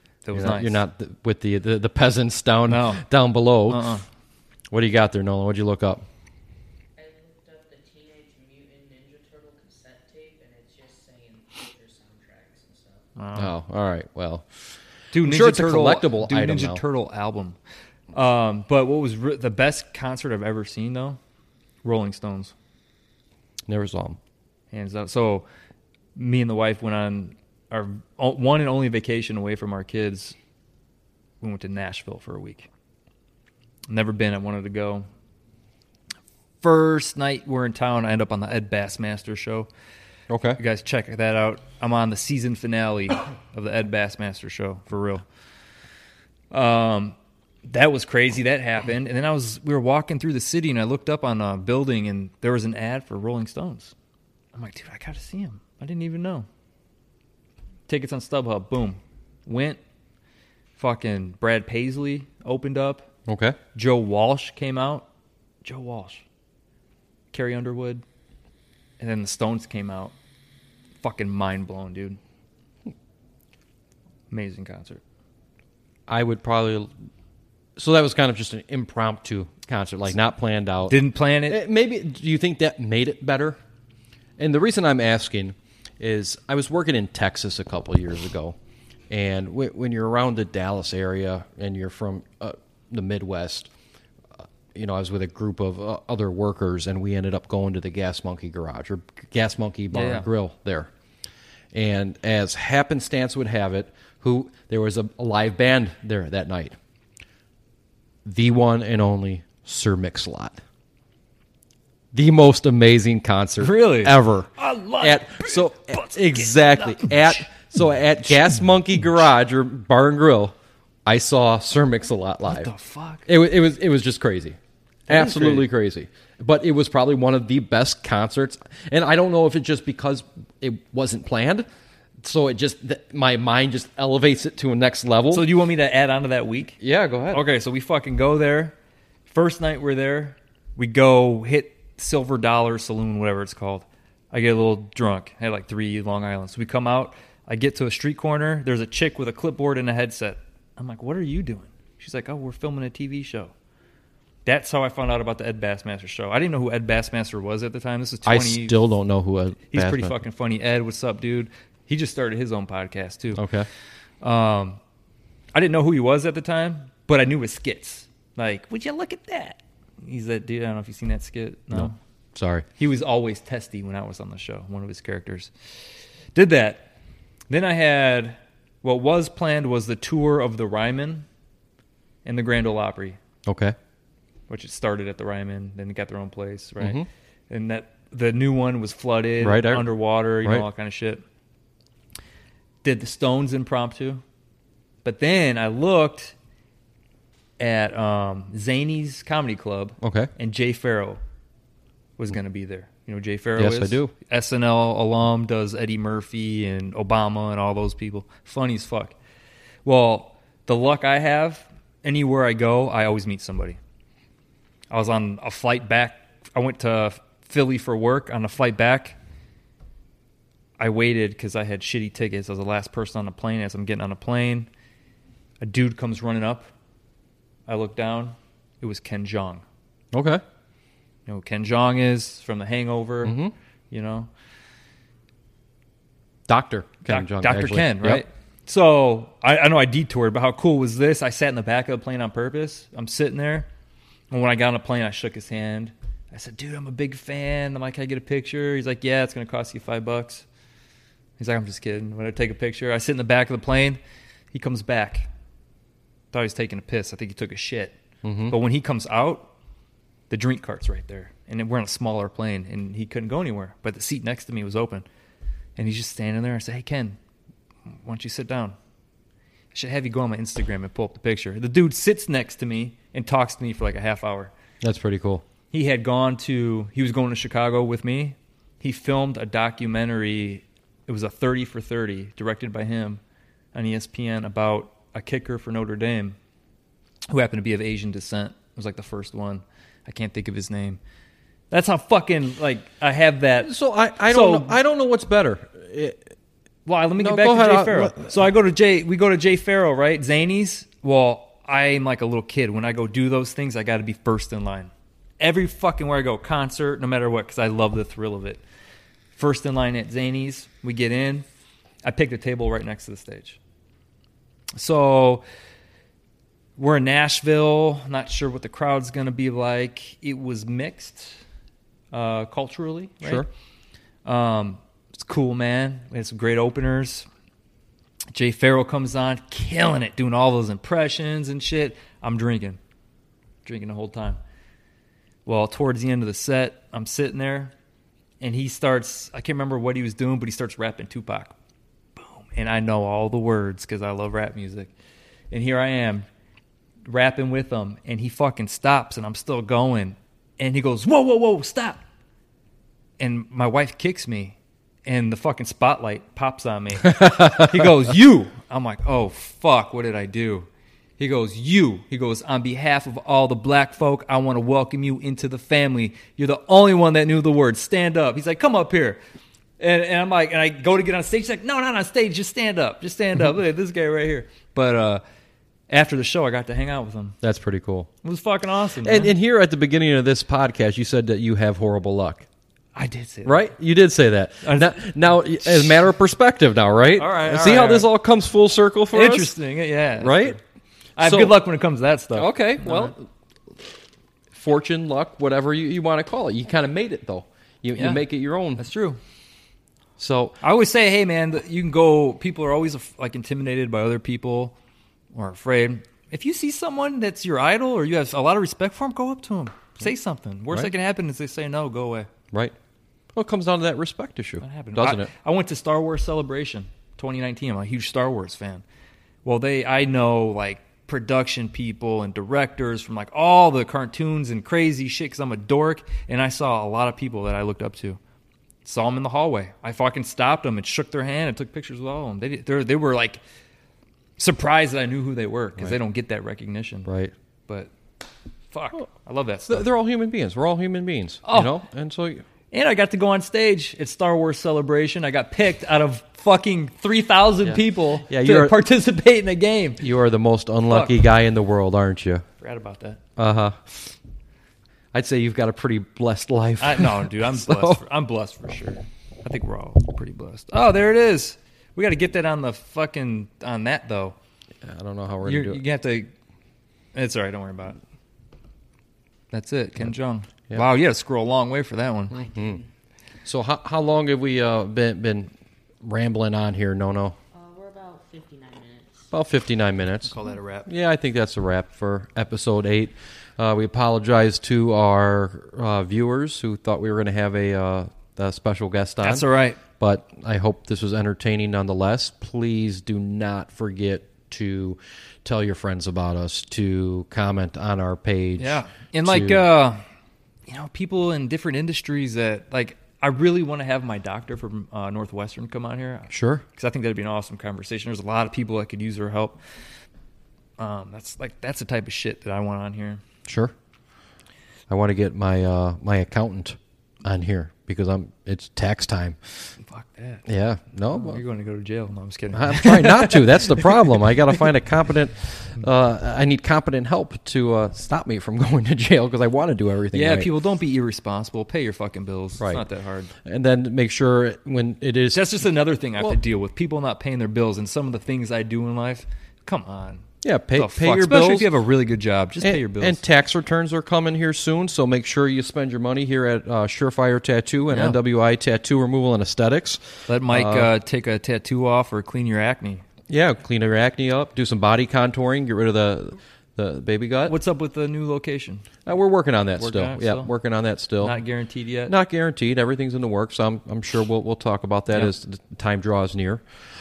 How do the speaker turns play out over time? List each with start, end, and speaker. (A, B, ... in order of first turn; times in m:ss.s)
0:00.2-0:00.8 A
0:00.3-0:03.9 B
0:02.7-0:03.0 A
0:03.7-0:04.0 A
0:04.7-0:06.0 B
0:07.0-0:13.0 C
0:13.2-0:13.5 A
0:13.3-0:14.4 B
0:15.1-0:17.6 A
0:15.2-0:16.8 B
0:18.1-0:21.2 A
0:21.8-0:22.5 A
0:23.7-0:24.2 B
0:24.7-0:25.4 A
0:26.1-0:30.4 A
0:31.4-0:32.7 A
0:33.9-0:35.0 A
0:36.6-0:39.7 A
0:40.3-0:40.6 B
0:40.6-0:45.2 A
0:46.5-0:53.9 A
0:54.5-0:56.4 A
0:57.9-0:59.8 A
1:00.8-1:03.1 A
1:03.3-1:03.6 B
1:03.7-1:05.0 A
1:05.6-1:06.2 A
1:07.3-1:08.0 A
1:09.0-1:10.1 A
1:11.0-1:12.2 A
1:14.3-1:15.0 A
1:16.1-1:16.9 B
1:17.8-1:23.6 B
1:20.9-1:21.6 A
1:24.4-1:28.6 B
1:29.1-1:33.7 B
1:34.4-1:40.9 B
1:39.9-1:40.3 A
1:41.7-1:46.7 B
1:48.2-1:50.6 B
1:52.1-2:00.5 B
1:53.6-1:57.7 A
2:01.0-2:02.7 B
2:02.4-2:03.3 A
2:03.2-2:11.6 B
2:05.1-2:05.7 A
2:12.2-2:15.5 B
2:15.3-2:16.8 A
2:16.8-2:17.4 B
2:17.3-2:18.7 A
2:19.3-2:33.5 A
2:34.4-2:38.8 A
2:38.2-2:40.2 B
2:39.7-2:43.4 A
2:43.3-2:43.7 B
2:44.2-2:44.8 A
2:45.5-2:52.0 A
2:51.7-2:52.6 B
2:52.8-2:55.5 A
2:56.3-2:56.9 A
2:57.5-3:01.2 A
3:02.2-3:03.2 A
3:03.4-3:03.8 B
3:04.5-3:11.2 A
3:06.8-3:07.1 B
3:09.4-3:09.9 B
3:12.8-3:14.2 A
3:15.0-3:16.3 A
3:17.6-3:21.2 A
3:20.0-3:20.3 B
3:22.2-3:29.1 A
3:23.6-3:24.1 B
3:29.8-3:33.8 A
3:34.9-3:39.2 A
3:40.8-3:44.7 A
3:45.6-3:46.7 A
3:47.7-3:49.6 A
3:50.1-3:50.4 B
3:51.3-3:53.4 A
3:53.2-3:53.5 B
3:53.9-3:54.3 A
3:56.5-3:58.2 B
3:57.1-4:03.7 A
4:04.3-4:10.4 A
4:11.4-4:14.0 A
4:14.5-4:15.3 A
4:16.3-4:17.9 A
4:18.2-4:18.6 B
4:18.5-4:19.5 A
4:20.3-4:25.0 A
4:25.8-4:27.2 A
4:27.9-4:28.8 A
4:29.7-4:34.5 A
4:34.8-4:35.4 B
4:35.7-4:43.2 A
4:43.7-4:46.4 A
4:47.3-4:51.0 A
4:51.7-4:53.7 A
4:53.6-4:56.3 B
4:54.3-4:54.8 A
4:56.8-5:08.6 A
4:57.2-4:58.4 B
5:09.3-5:11.4 A
5:12.0-5:13.6 A
5:14.8-5:15.4 A
5:16.8-5:21.4 A
5:22.1-5:23.5 A
5:23.2-5:23.5 B
5:24.2-5:27.2 A
5:28.3-5:32.8 A
5:33.6-5:34.4 A
5:35.4-5:37.7 A
5:38.4-5:41.5 A
5:42.2-5:44.9 A
5:45.5-5:46.3 A
5:47.0-5:52.0 A
5:53.2-6:09.2 A
5:57.2-5:57.5 B
6:09.8-6:15.2 A
6:15.9-6:17.4 A
6:17.4-6:18.1 B
6:18.2-6:19.3 A
6:19.0-6:22.4 B
6:22.9-6:23.7 A
6:23.4-6:29.5 B
6:24.6-6:26.0 A
6:27.2-6:28.1 A
6:29.1-6:30.6 A
6:30.2-6:30.6 B
6:31.2-6:33.1 A
6:31.2-6:31.6 B
6:32.3-6:33.3 B
6:34.5-6:38.8 B
6:37.9-6:38.2 A
6:38.8-6:39.2 A
6:40.2-6:40.6 B
6:40.6-6:44.7 A
6:45.3-6:52.3 A
6:53.3-6:55.3 B
6:54.6-6:58.8 A
6:59.4-7:08.2 A
7:08.8-7:13.4 A
7:14.4-7:17.1 A
7:17.0-7:17.3 B
7:18.7-7:19.9 A
7:19.7-7:22.4 B
7:21.4-7:21.7 A
7:22.7-7:30.0 A
7:27.6-7:28.8 B
7:30.0-7:32.4 B
7:30.9-7:31.2 A
7:32.6-7:33.2 A
7:33.4-7:34.1 B
7:35.1-7:38.0 B
7:36.8-7:44.4 A
7:44.8-7:45.8 B
7:45.4-7:46.3 A
7:47.1-7:48.0 A
7:49.5-7:52.4 A
7:52.3-7:52.8 C
7:52.5-7:52.8 B
7:53.4-7:55.5 B
7:56.0-7:57.4 B
7:57.5-7:59.3 C
7:59.3-8:19.6 B
8:00.3-8:00.9 A
8:09.2-8:09.8 A
8:18.6-8:20.0 A
8:20.7-8:29.6 A
8:26.3-8:26.6 B
8:30.8-8:33.2 A
8:33.4-8:33.7 B
8:34.9-8:39.7 B
8:39.8-8:40.4 A
8:40.4-8:41.4 B
8:41.0-8:43.9 A
8:42.5-8:50.5 B
8:50.1-8:53.3 A
8:52.6-8:52.8 B
8:53.4-8:55.6 B
8:55.3-9:03.2 A
9:00.4-9:01.7 B
9:02.6-9:10.9 B
9:07.9-9:08.2 A
9:10.3-9:13.0 A
9:13.3-9:17.6 B
9:17.4-9:18.9 A
9:19.0-9:21.4 B
9:19.8-9:20.5 A
9:21.2-9:22.1 A
9:22.1-9:26.6 B